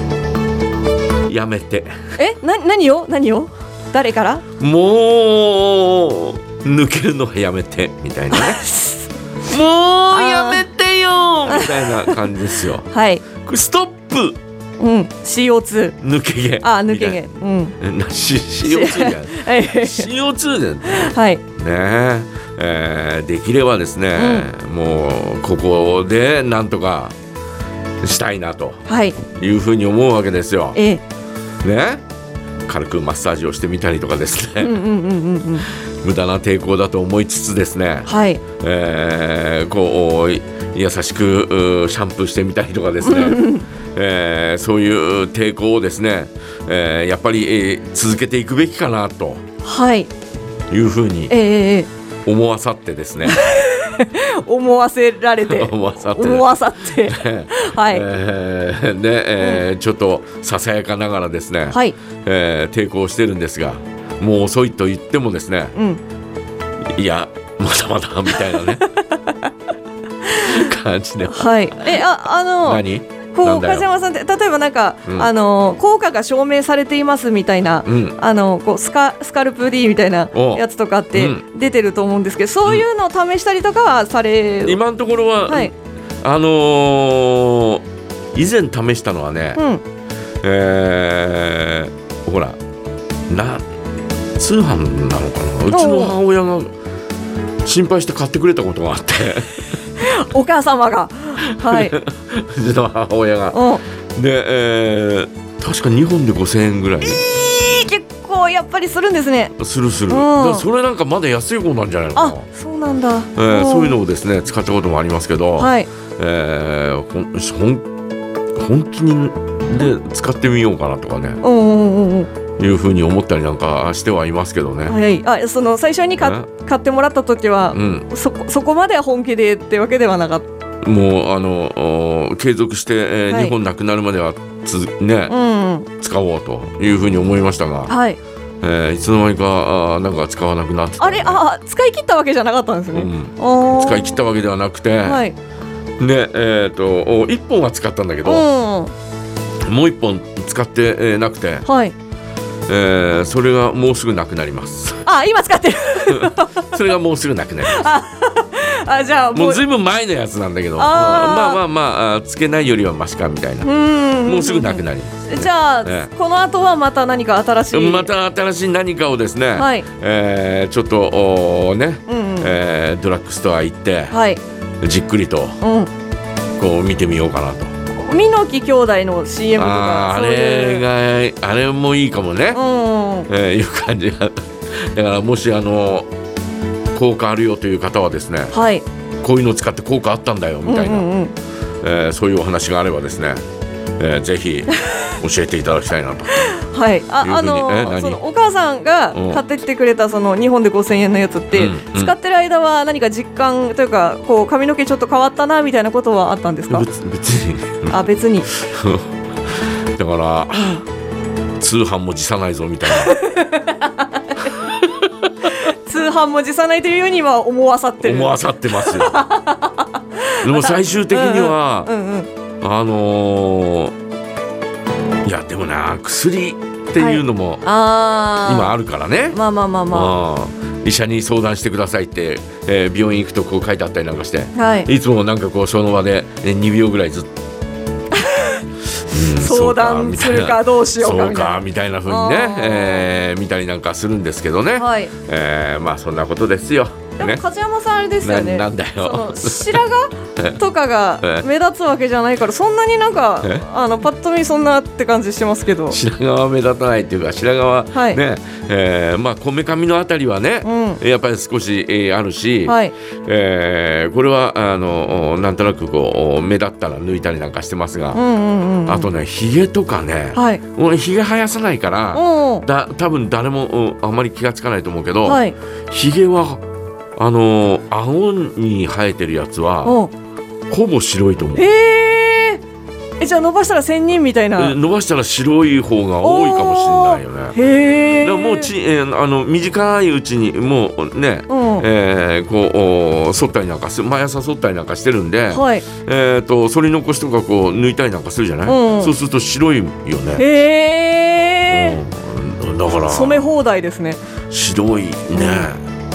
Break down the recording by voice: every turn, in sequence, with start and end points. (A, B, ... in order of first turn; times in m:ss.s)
0:01.3-0:02.0 A
0:02.2-0:04.4 B
0:04.6-0:08.6 A
0:08.3-0:09.0 B
0:09.4-0:14.4 A
0:10.1-0:10.6 B
0:11.5-0:12.3 B
0:12.9-0:13.2 B
0:14.8-0:16.0 B
0:16.0-0:17.3 A
0:16.6-0:17.8 B
0:17.8-0:27.1 A
0:18.6-0:20.1 B
0:20.9-0:21.4 B
0:24.2-0:24.5 B
0:28.0-0:30.8 A
0:28.9-0:29.2 B
0:30.8-0:31.0 B
0:31.6-0:32.0 A
0:32.7-0:34.8 A
0:34.6-0:35.7 B
0:35.7-0:49.4 A
0:38.1-0:38.4 B
0:43.0-0:43.6 B
0:49.6-0:50.1 B
0:50.7-0:51.4 A
0:51.3-0:51.9 B
0:52.2-0:53.4 A
0:53.2-0:58.1 B
0:55.5-1:05.8 A
0:59.4-0:59.6 B
1:01.7-1:02.0 B
1:05.8-1:06.0 B
1:06.9-1:08.9 A
1:08.3-1:09.5 B
1:10.2-1:10.7 B
1:10.3-1:12.0 A
1:11.2-1:12.8 B
1:12.6-1:13.8 A
1:13.3-1:24.8 B
1:17.9-1:18.2 A
1:20.3-1:21.4 A
1:24.6-1:29.6 A
1:29.6-1:29.8 B
1:30.4-1:32.6 A
1:33.3-1:33.7 A
1:34.4-1:36.7 A
1:35.7-1:36.2 B
1:37.6-1:39.7 A
1:40.0-1:42.0 B
1:41.5-1:43.6 A
1:43.5-1:43.8 B
1:44.2-1:47.2 A
1:47.1-1:49.5 B
1:49.6-1:52.5 A
1:50.1-1:50.7 B
1:52.2-1:54.0 B
1:53.4-1:57.9 A
1:55.6-1:55.9 B
1:58.6-2:01.4 A
2:01.4-2:02.3 B
2:02.6-2:05.0 A
2:04.9-2:10.5 B
2:06.2-2:06.5 A
2:07.7-2:08.1 A
2:10.8-2:15.4 A
2:13.3-2:13.6 B
2:15.3-2:15.9 B
2:16.0-2:18.0 A
2:17.9-2:18.2 B
2:18.6-2:21.4 A
2:21.0-2:24.2 B
2:22.9-2:25.2 A
2:25.0-2:25.4 B
2:26.0-2:28.5 A
2:28.2-2:28.9 B
2:29.6-2:31.7 A
2:31.7-2:32.0 B
2:32.7-2:35.1 A
2:35.1-2:36.8 B
2:36.1-2:37.8 A
2:37.6-2:39.6 B
2:39.3-2:43.7 A
2:40.8-2:41.6 B
2:43.6-2:48.1 B
2:44.2-2:46.1 A
2:47.7-2:54.2 A
2:49.6-2:49.9 B
2:52.1-2:52.6 B
2:54.1-2:54.4 B
2:54.8-2:55.6 A
2:55.6-2:55.9 B
2:56.6-2:57.7 A
2:58.0-3:00.9 B
2:59.6-3:02.6 A
3:02.5-3:03.3 B
3:03.3-3:06.1 A
3:07.0-3:08.6 A
3:08.5-3:08.8 B
3:09.2-3:11.1 A
3:10.7-3:11.4 B
3:11.8-3:13.4 A
3:14.0-3:16.6 A
3:16.4-3:26.9 B
3:17.2-3:18.2 A
3:19.1-3:19.4 A
3:21.5-3:22.1 A
3:26.7-3:29.1 A
3:27.9-3:28.5 B
3:29.9-3:30.8 A
3:31.6-3:33.2 A
3:32.9-3:34.5 B
3:34.6-3:35.3 A
3:35.6-3:42.3 B
3:38.0-3:39.2 A
3:40.4-3:41.9 A
3:42.6-3:43.9 A
3:45.2-3:47.6 A
3:47.0-3:48.8 B
3:48.4-3:49.4 A
3:49.3-3:50.1 B
3:49.9-3:57.3 A
3:54.6-3:54.9 B
3:58.1-3:58.6 B
3:59.1-4:07.4 A
3:59.3-4:03.1 B
4:04.8-4:05.1 B
4:07.2-4:16.0 B
4:08.2-4:09.8 A
4:15.9-4:28.2 A
4:17.9-4:18.2 B
4:20.6-4:21.0 B
4:22.7-4:23.0 B
4:28.1-4:29.1 B
4:28.9-4:36.6 A
4:30.4-4:30.6 B
4:32.1-4:32.7 B
4:35.2-4:35.6 B
4:37.2-4:40.0 A
4:39.8-4:40.1 B
4:40.7-4:41.7 A
4:41.6-4:42.6 B
4:43.2-4:44.8 B
4:44.6-4:47.6 A
4:46.2-4:48.7 B
4:48.1-5:00.5 A
4:51.5-4:51.9 B
4:55.5-4:55.8 B
4:58.7-4:59.1 B
5:00.4-5:02.0 B
5:01.7-5:03.5 A
5:03.1-5:04.2 B
5:04.5-5:05.8 A
5:05.4-5:05.7 B